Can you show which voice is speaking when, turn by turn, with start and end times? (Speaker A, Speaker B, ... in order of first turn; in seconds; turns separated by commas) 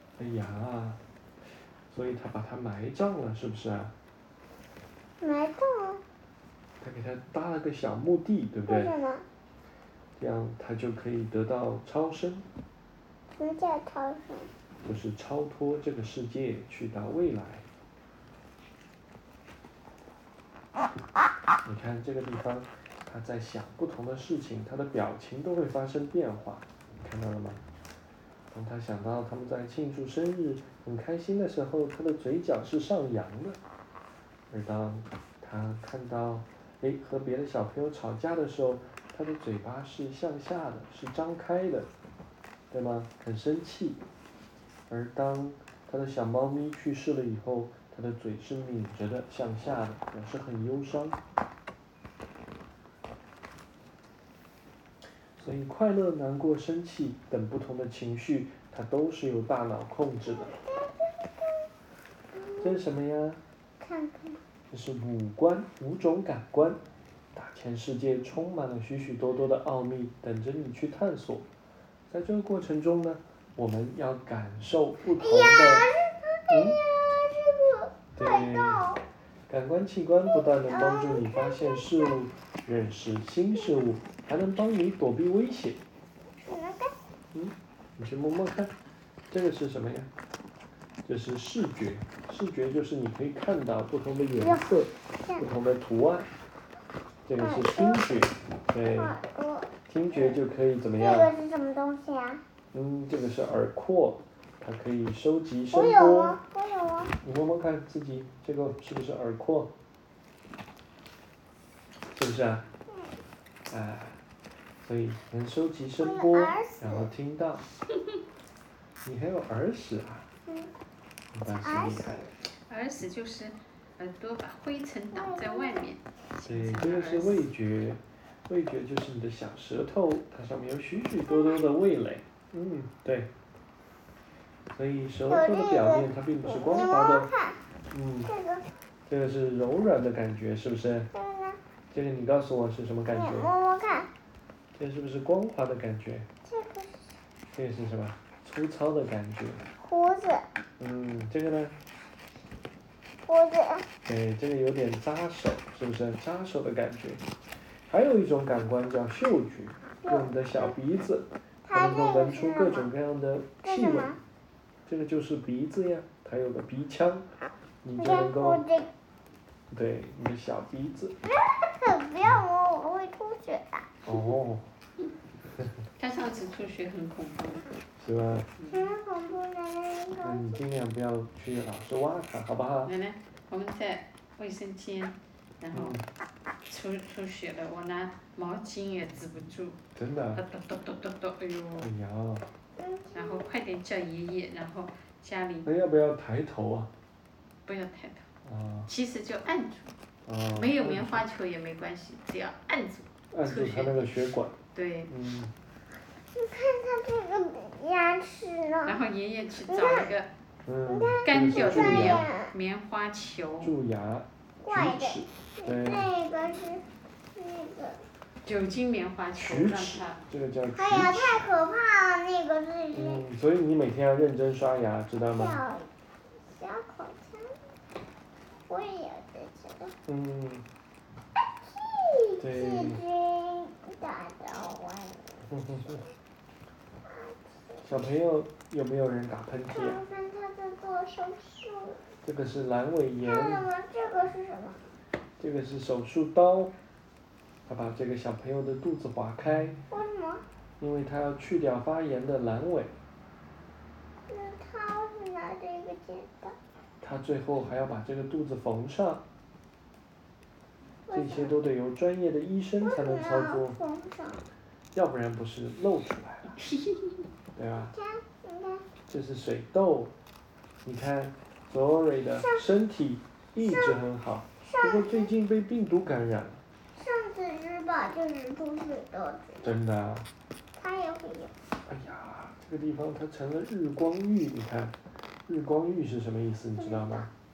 Speaker A: 0.2-1.0, Speaker A: 1.9-3.9, Speaker B: 5.2-6.0, Speaker A: 6.8-8.9, Speaker B: 8.7-9.2, Speaker A: 10.2-12.4, Speaker B: 13.3-14.5, Speaker A: 14.8-17.6, Speaker A: 21.6-27.6, Speaker A: 28.5-33.6, Speaker A: 34.5-41.9, Speaker A: 42.7-44.0, Speaker A: 44.9-51.2, Speaker A: 55.4-60.5, Speaker B: 60.2-61.7, Speaker B: 62.3-62.8, Speaker A: 62.6-63.4, Speaker B: 63.8-64.4, Speaker A: 64.7-66.8, Speaker A: 67.3-71.5, Speaker A: 72.1-75.9, Speaker B: 75.2-79.0, Speaker A: 76.5-76.8, Speaker A: 78.2-78.8, Speaker A: 79.5-85.8, Speaker B: 80.3-82.2, Speaker B: 83.5-83.8, Speaker B: 86.4-87.0, Speaker A: 87.3-88.7, Speaker A: 89.3-90.1, Speaker A: 91.0-96.3, Speaker B: 94.4-95.5, Speaker A: 97.2-99.1, Speaker B: 97.4-98.1, Speaker B: 98.8-100.4, Speaker A: 99.9-101.3, Speaker B: 101.0-102.4, Speaker A: 102.7-106.4, Speaker B: 105.7-107.1, Speaker A: 107.2-109.7, Speaker A: 112.1-112.7, Speaker A: 113.7-114.2, Speaker A: 114.8-117.6, Speaker B: 116.0-117.1, Speaker A: 119.0-120.2, Speaker A: 121.3-122.2, Speaker B: 121.5-122.3, Speaker C: 122.5-127.5, Speaker B: 125.1-125.9, Speaker A: 126.5-133.3, Speaker B: 131.3-131.7, Speaker A: 134.7-137.3, Speaker B: 135.3-137.6, Speaker A: 137.9-138.3, Speaker B: 138.2-138.7, Speaker A: 139.1-141.1, Speaker B: 141.1-141.6, Speaker A: 141.9-143.5, Speaker B: 143.1-144.1, Speaker A: 144.8-146.3, Speaker B: 146.4-147.2, Speaker A: 147.5-149.6, Speaker B: 149.8-150.4, Speaker A: 150.8-151.7, Speaker B: 153.2-153.9, Speaker A: 154.0-157.2, Speaker A: 157.9-164.2, Speaker B: 160.0-160.3, Speaker B: 161.6-162.9, Speaker B: 163.6-164.2, Speaker A: 164.8-167.3, Speaker A: 167.8-168.6, Speaker B: 168.0-168.9, Speaker A: 169.7-171.2, Speaker B: 171.2-173.9, Speaker A: 174.0-174.7, Speaker C: 176.0-177.7, Speaker A: 178.0-178.5, Speaker B: 178.7-180.6, Speaker A: 180.2-182.9, Speaker C: 182.8-185.9, Speaker A: 185.7-186.0, Speaker C: 186.6-189.8, Speaker A: 189.9-190.4, Speaker C: 190.3-191.9, Speaker A: 191.8-192.4, Speaker B: 192.8-193.5, Speaker C: 193.1-195.7, Speaker A: 195.6-196.9, Speaker C: 197.7-198.2, Speaker A: 198.4-198.9, Speaker C: 198.8-199.9, Speaker A: 200.3-201.2, Speaker C: 200.5-204.1, Speaker A: 203.3-204.5, Speaker C: 204.7-205.1, Speaker A: 205.1-205.5, Speaker B: 206.3-209.0, Speaker C: 208.8-210.3, Speaker B: 209.6-210.1, Speaker A: 210.7-212.2, Speaker B: 210.9-212.5, Speaker C: 211.2-213.7, Speaker A: 213.6-216.1, Speaker B: 214.6-216.8, Speaker B: 217.3-218.0, Speaker C: 218.4-220.2, Speaker A: 219.3-221.4, Speaker B: 220.7-223.2, Speaker A: 222.9-225.6, Speaker B: 225.2-227.5, Speaker B: 228.7-229.9, Speaker A: 230.1-230.6, Speaker B: 231.6-235.5, Speaker A: 232.4-233.0, Speaker A: 235.5-236.0, Speaker B: 237.0-237.9, Speaker A: 237.8-240.0, Speaker B: 239.7-242.0, Speaker A: 242.2-243.7, Speaker B: 243.2-244.8, Speaker A: 245.4-246.7, Speaker A: 247.7-249.8, Speaker B: 249.9-250.4, Speaker A: 250.8-252.9, Speaker B: 254.3-256.5, Speaker A: 257.0-259.2, Speaker B: 261.1-261.5, Speaker A: 261.1-263.8, Speaker B: 262.8-264.4, Speaker A: 264.9-266.6, Speaker C: 266.7-267.1, Speaker A: 267.6-267.9, Speaker B: 267.8-268.9, Speaker A: 269.1-270.1, Speaker A: 270.8-276.6, Speaker B: 272.3-272.7, Speaker B: 273.6-274.0, Speaker B: 274.6-275.3, Speaker B: 276.9-279.7, Speaker A: 279.6-280.3, Speaker B: 280.7-281.5, Speaker A: 281.9-284.9, Speaker A: 285.5-287.3, Speaker B: 286.8-287.3